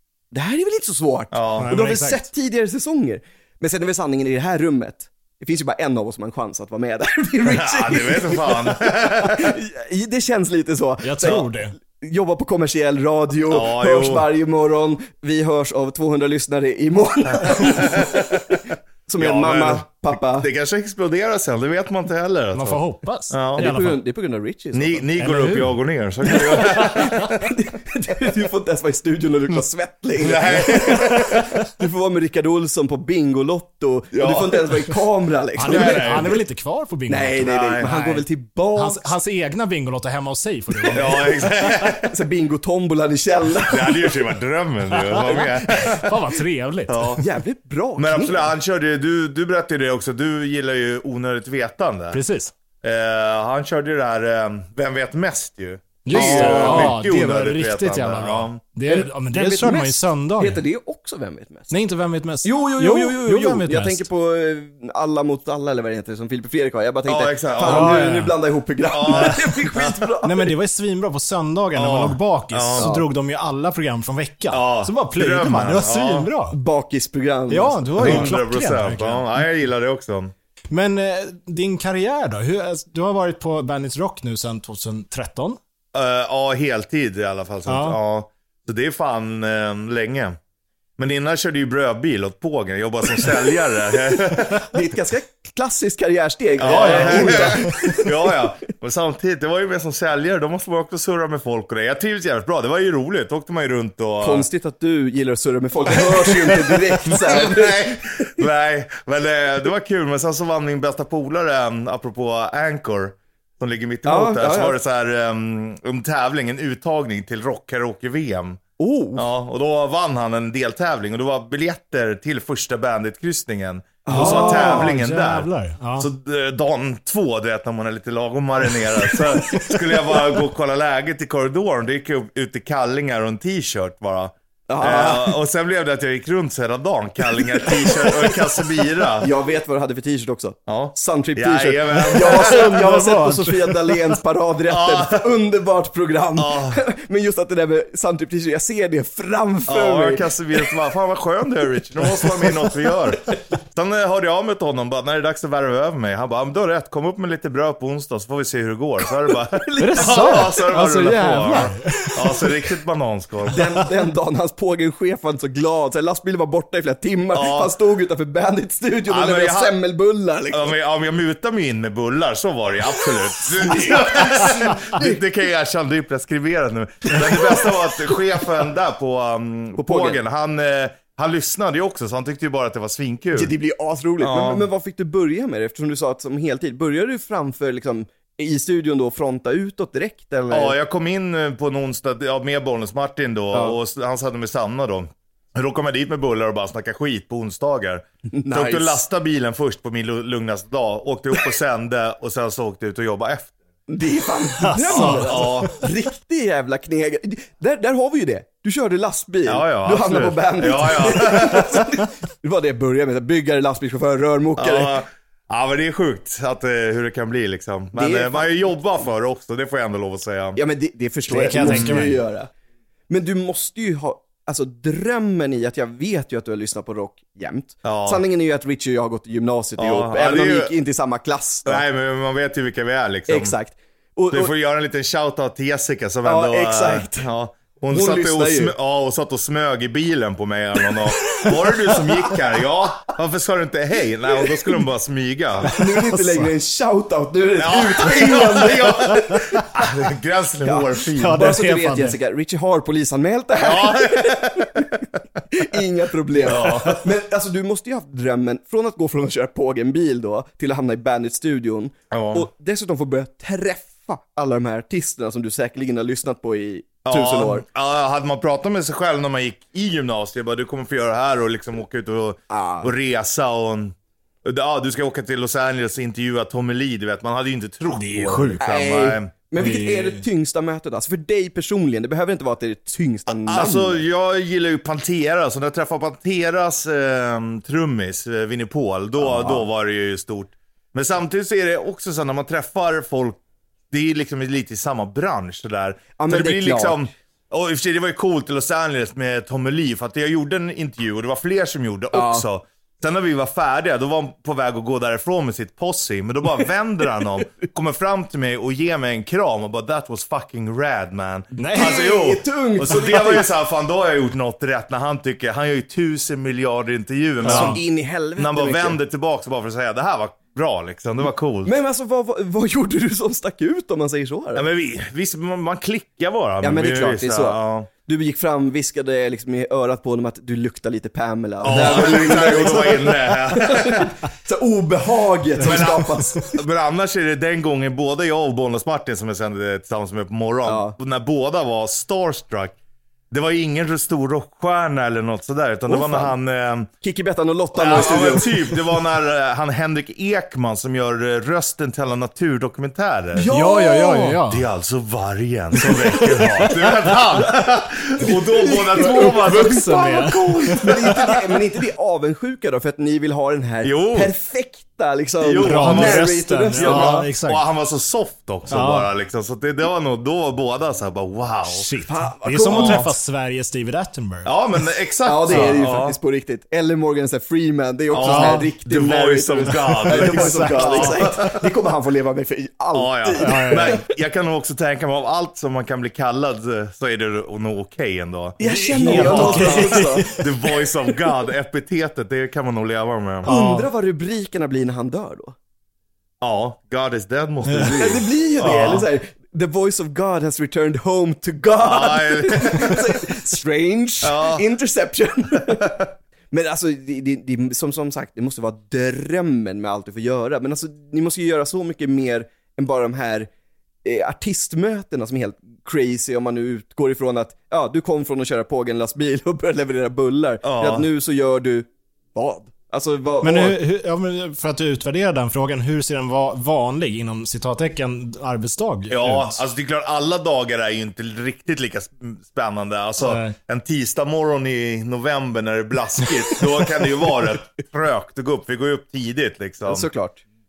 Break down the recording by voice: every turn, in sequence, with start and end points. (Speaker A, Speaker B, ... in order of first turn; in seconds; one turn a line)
Speaker A: 0.3-20.5
Speaker B: 1.3-1.7
Speaker C: 1.6-2.3
Speaker B: 7.5-9.6
Speaker C: 11.0-11.8
Speaker B: 13.5-14.3
Speaker B: 17.2-23.7
Speaker C: 22.5-24.0
Speaker A: 23.6-25.1
Speaker B: 24.7-27.5
Speaker C: 25.2-27.3
Speaker A: 26.6-36.4
Speaker B: 30.2-31.6
Speaker B: 34.1-35.0
Speaker C: 35.6-41.5
Speaker B: 35.6-36.4
Speaker A: 37.1-39.1
Speaker B: 37.4-37.9
Speaker B: 40.9-42.1
Speaker A: 41.9-44.2
Speaker B: 43.7-46.2
Speaker C: 44.9-47.1
Speaker B: 46.9-47.2
Speaker A: 47.2-48.5
Speaker B: 48.0-52.2
Speaker C: 52.1-52.5
Speaker B: 52.8-58.6
Speaker C: 56.0-60.6
Speaker A: 56.1-57.0
Speaker A: 58.9-61.7
Speaker C: 61.7-64.1
Speaker A: 62.4-70.5
Speaker B: 67.1-68.0
Speaker C: 67.6-68.3
Speaker B: 68.9-70.1
Speaker C: 69.1-69.4
Speaker C: 70.2-76.6
Speaker B: 71.8-72.9
Speaker A: 72.8-73.1
Speaker B: 74.5-76.3
Speaker A: 76.5-78.3
Speaker C: 77.5-79.5
Speaker B: 78.0-80.3
Speaker C: 80.7-85.6
Speaker B: 85.9-90.4
Speaker C: 87.7-88.0
Speaker B: 91.0-94.7
Speaker A: 94.7-98.3
Speaker B: 96.6-104.5
Speaker C: 96.6-98.0
Speaker A: 104.2-108.4
Speaker B: 106.3-118.6
Speaker A: 114.0-114.8
Speaker A: 118.8-119.3
Speaker B: 119.2-139.3
Speaker A: 124.0-124.9
Speaker C: 124.1-126.1
Speaker C: 129.4-129.8
Speaker A: 134.7-135.4
Speaker A: 139.2-150.7
Speaker B: 140.7-142.8
Speaker C: 142.1-144.2
Speaker B: 144.7-145.3
Speaker B: 146.4-146.8
Speaker B: 149.7-163.6
Speaker A: 152.1-153.4
Speaker A: 159.3-160.6
Speaker C: 159.8-162.4
Speaker A: 163.5-170.7
Speaker B: 167.3-167.7
Speaker B: 169.1-169.8
Speaker B: 170.5-183.5
Speaker A: 173.4-175.2
Speaker A: 177.1-177.7
Speaker A: 179.8-180.2
Speaker A: 183.3-190.8
Speaker B: 184.2-184.7
Speaker B: 190.5-203.5
Speaker A: 198.3-199.0
Speaker A: 203.9-214.9
Speaker C: 204.6-205.7
Speaker B: 204.9-205.8
Speaker B: 209.5-211.9
Speaker B: 214.6-220.6
Speaker A: 217.9-218.7
Speaker A: 220.6-222.5
Speaker C: 221.3-222.2
Speaker B: 221.6-222.1
Speaker A: 223.1-231.8
Speaker B: 227.8-228.2
Speaker B: 229.8-230.7
Speaker B: 231.7-233.6
Speaker A: 233.3-234.5
Speaker B: 234.3-245.8
Speaker A: 236.2-237.3
Speaker A: 237.9-238.8
Speaker C: 241.3-241.6
Speaker A: 245.7-249.6
Speaker C: 245.7-246.5
Speaker B: 247.6-251.5
Speaker C: 248.3-248.7
Speaker A: 250.6-267.6
Speaker C: 251.2-252.2
Speaker B: 253.6-254.9
Speaker B: 256.4-257.1
Speaker B: 262.1-262.5
Speaker B: 267.1-279.3
Speaker A: 272.5-272.9
Speaker C: 277.9-278.6
Speaker A: 278.6-284.0
Speaker C: 279.6-280.3
Speaker B: 283.3-293.4
Speaker A: 289.2-289.7
Speaker B: 293.9-317.8
Speaker A: 296.2-297.1
Speaker A: 302.1-302.5
Speaker A: 311.6-313.5
Speaker C: 311.6-311.9
Speaker C: 317.4-317.8
Speaker A: 317.4-319.0
Speaker B: 318.4-321.7
Speaker A: 321.6-324.7
Speaker B: 324.6-327.9
Speaker A: 326.6-336.6
Speaker B: 331.6-334.2
Speaker C: 331.7-332.2
Speaker B: 335.6-342.8
Speaker A: 340.6-341.0
Speaker B: 343.3-346.9
Speaker A: 345.9-346.4
Speaker A: 347.0-348.8
Speaker B: 347.7-353.5
Speaker A: 353.3-354.4
Speaker C: 353.5-354.7
Speaker B: 354.5-359.8
Speaker C: 355.8-357.2
Speaker A: 358.2-367.3
Speaker C: 358.9-361.4
Speaker B: 363.8-364.3
Speaker B: 365.4-371.9
Speaker C: 365.6-367.6
Speaker C: 368.7-369.1
Speaker C: 371.7-374.6
Speaker A: 372.1-373.1
Speaker B: 372.7-373.1
Speaker B: 374.4-376.2
Speaker A: 375.2-384.0
Speaker C: 375.5-375.8
Speaker B: 378.1-381.6
Speaker C: 378.2-378.7
Speaker C: 379.8-381.3
Speaker B: 382.9-393.5
Speaker C: 383.4-384.0
Speaker A: 388.6-390.4
Speaker C: 388.6-390.5
Speaker C: 393.4-393.9
Speaker A: 393.5-395.6
Speaker B: 396.4-399.1
Speaker C: 397.7-398.0
Speaker A: 398.0-413.5
Speaker B: 401.8-403.2
Speaker B: 404.2-404.6
Speaker B: 405.7-406.0
Speaker A: 414.0-423.8
Speaker B: 420.6-421.1
Speaker C: 423.4-429.6
Speaker B: 429.1-440.1
Speaker C: 433.2-433.6
Speaker A: 439.9-440.4